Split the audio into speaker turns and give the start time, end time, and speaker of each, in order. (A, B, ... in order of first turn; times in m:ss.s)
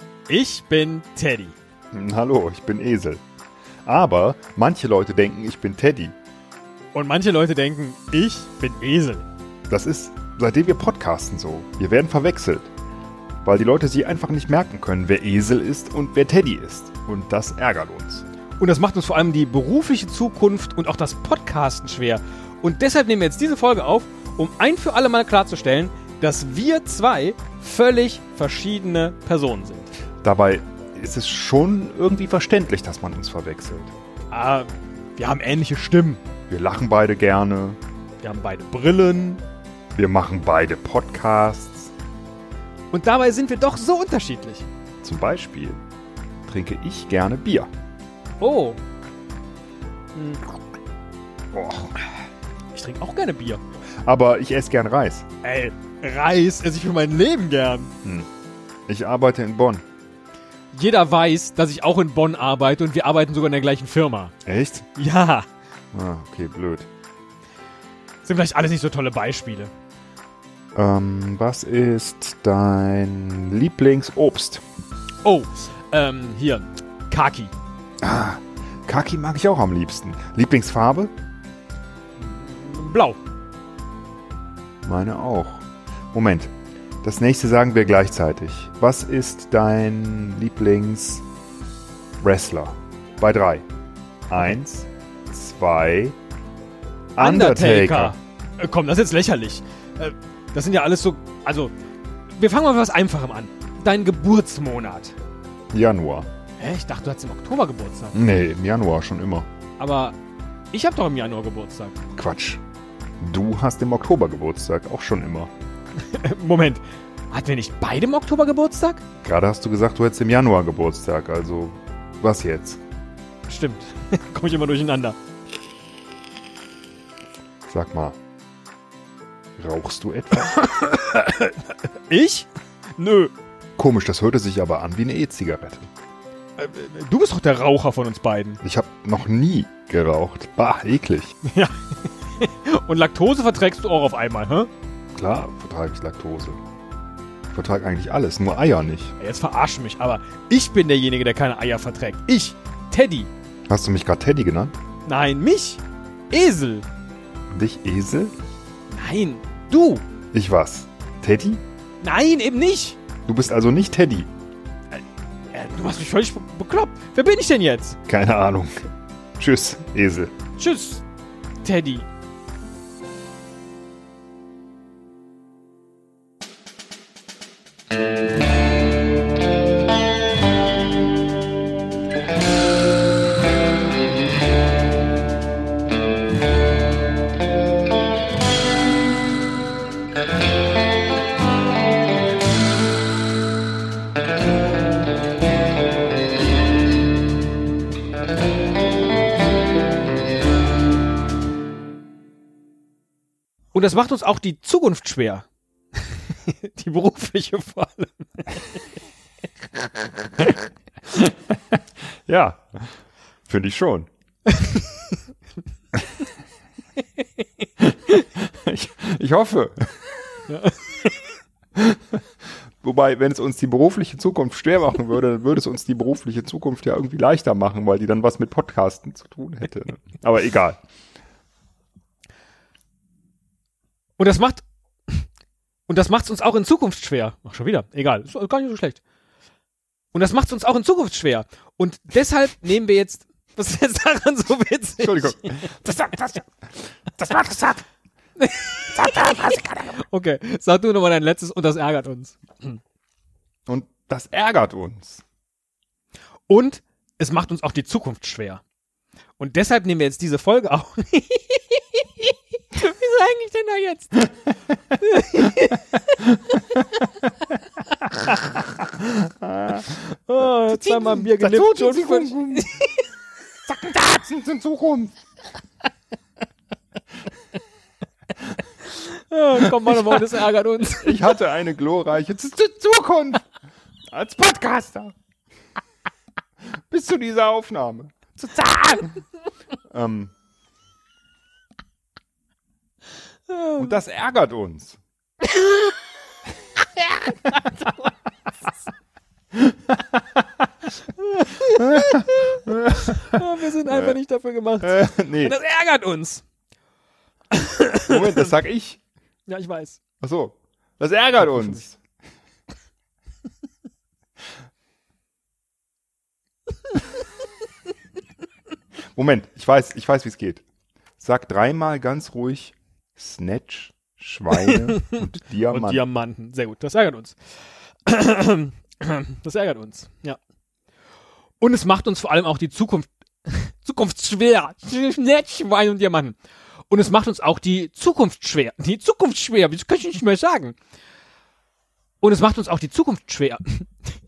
0:00.3-0:01.6 A
0:01.9-0:03.2 B
0:03.8-0:06.1 B
0:06.9-0:09.2 A
0:09.7-0:12.7 B
0:13.4-0:18.2 B
0:18.6-0:29.9 A
0:30.2-0:33.9 B
0:34.3-0:36.2 A
0:36.5-0:37.8 B
0:38.2-0:39.4 A
0:39.9-0:41.9 B
0:42.9-0:44.7 A
0:45.0-0:45.8 B
0:46.4-0:47.7 B
0:48.4-0:48.8 A
0:50.1-0:50.4 A
0:51.5-0:52.0 B
0:52.7-0:53.6 A
0:54.0-0:55.2 B
0:55.4-0:57.9 A
0:58.9-0:59.8 B
1:00.7-1:04.3 A
1:04.4-1:04.8 B
1:05.0-1:05.5 A
1:05.9-1:06.9 B
1:08.2-1:09.7 A
1:10.7-1:14.6 B
1:15.2-1:17.5 A
1:18.0-1:21.1 B
1:22.2-1:23.2 A
1:24.8-1:26.5 B
1:27.0-1:31.2 B
1:32.2-1:33.6 B
1:34.3-1:36.2 B
1:37.2-1:38.2 B
1:37.2-1:41.7 A
1:42.3-1:45.2 A
1:45.7-1:46.3 B
1:46.6-1:48.3 A
1:48.1-1:49.5 B
1:49.8-1:50.2 A
1:50.7-1:52.0 A
1:52.1-1:52.6 B
1:53.2-1:55.5 B
1:56.0-1:59.0 A
1:59.2-2:02.8 B
2:03.5-2:05.2 A
2:07.7-2:08.2 B
2:09.6-2:10.7 B
2:10.6-2:13.3 A
2:13.8-2:15.9 B
2:16.6-2:18.6 A
2:18.6-2:21.4 B
2:21.4-2:24.7 A
2:25.1-2:26.6 B
2:27.5-2:29.1 B
2:29.2-2:33.3 A
2:33.7-2:34.8 B
2:35.0-2:36.8 A
2:37.5-2:38.3 B
2:38.9-2:40.0 A
2:40.3-2:41.6 B
2:42.0-2:43.0 A
2:43.3-2:44.3 B
2:44.9-2:48.0 A
2:48.1-2:48.8 B
2:49.4-2:50.3 B
2:50.6-2:51.0 A
2:51.6-2:52.0 A
3:23.7-3:25.4 A
3:26.0-3:28.8 A
3:31.1-3:32.9 B
3:33.5-3:34.1 B
3:34.5-3:35.2 A
3:37.8-3:40.0 B
3:40.5-3:41.1 A
3:41.8-3:42.2 B
3:42.8-3:50.8 B
3:54.2-3:55.3 A
3:55.9-3:59.0 A
4:00.1-4:06.5 A
4:05.0-4:05.7 B
4:07.1-4:07.8 A
4:08.4-4:12.8 A
4:13.7-4:15.2 B
4:16.5-4:18.6 A
4:19.4-4:24.3 A
4:24.9-4:27.0 A
4:28.0-4:28.4 A
4:29.0-4:32.7 B
4:30.3-4:32.9 A
4:33.7-4:35.1 B
4:38.9-4:41.3 A
4:39.8-4:40.2 B
4:40.9-4:43.5 B
4:44.1-4:45.1 B
4:46.9-4:49.1 B
4:48.7-4:49.1 A
4:49.9-4:50.3 B
4:53.5-4:54.0 A
4:53.8-4:55.0 B
4:55.6-4:55.9 A
4:57.0-4:57.9 A
5:01.2-5:06.4 A
5:01.8-5:04.2 B
5:04.8-5:05.6 B
5:07.5-5:08.5 A
5:08.1-5:09.0 B
5:09.5-5:10.0 A
5:10.2-5:12.0 B
5:19.1-5:20.6 B
5:21.2-5:26.0 B
5:24.5-5:27.4 A
5:28.0-5:30.4 A
5:31.6-5:36.4 A
5:36.9-5:40.8 A
5:42.2-5:43.9 A